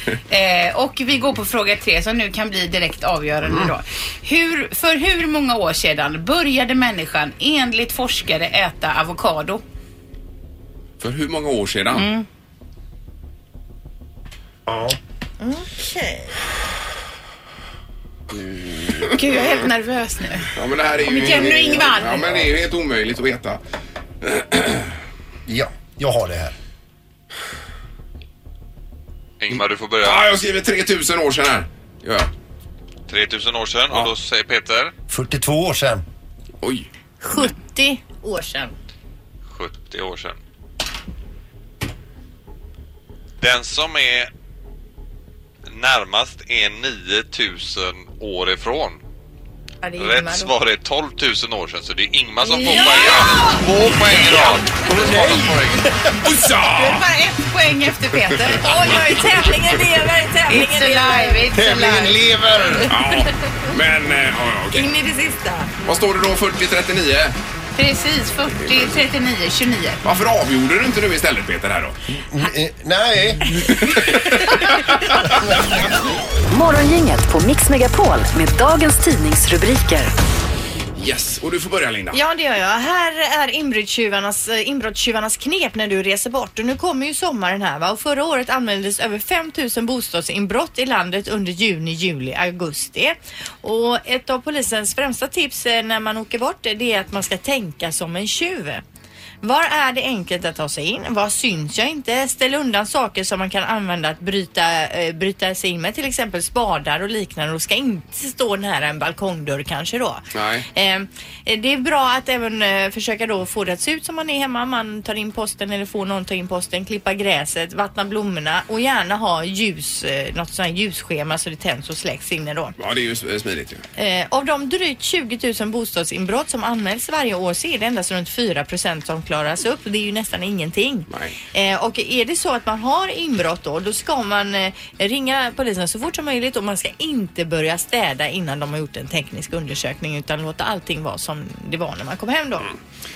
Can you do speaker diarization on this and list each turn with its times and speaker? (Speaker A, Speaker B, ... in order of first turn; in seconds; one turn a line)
Speaker A: 0.3-9.6
Speaker B: 11.0-12.1
Speaker A: 11.9-12.3
Speaker C: 14.7-15.0
Speaker D: 15.4-16.4
Speaker B: 18.3-19.1
Speaker A: 19.1-20.5
Speaker B: 20.5-23.6
Speaker A: 21.1-22.4
Speaker B: 24.2-24.9
Speaker C: 25.5-26.6
Speaker E: 29.4-30.3
Speaker B: 30.0-32.3
Speaker E: 33.1-34.9
Speaker C: 35.1-36.0
Speaker B: 36.6-36.9
Speaker D: 37.2-38.8
Speaker E: 39.5-40.4
Speaker E: 43.4-44.3
Speaker E: 45.7-49.0
Speaker D: 49.8-50.5
Speaker E: 50.0-55.8
Speaker D: 52.4-55.5
Speaker C: 55.0-55.3
Speaker B: 56.2-57.1
Speaker D: 56.7-62.1
Speaker A: 57.8-58.3
Speaker B: 58.5-59.5
Speaker A: 60.5-62.2
Speaker C: 61.5-63.0
Speaker D: 62.7-63.7
Speaker B: 62.9-64.9
Speaker D: 64.7-65.7
Speaker B: 65.8-67.4
Speaker A: 67.8-70.0
Speaker B: 68.6-69.0
Speaker B: 70.0-72.0
Speaker C: 72.1-74.0
Speaker B: 73.7-75.1
Speaker C: 75.4-75.8
Speaker F: 76.5-80.1
Speaker B: 81.0-82.2
Speaker D: 82.1-98.8
Speaker D: 99.4-122.8
Speaker B: 110.3-110.7
Speaker B: 122.8-123.8
Speaker D: 124.0-142.7
Speaker B: 131.1-131.4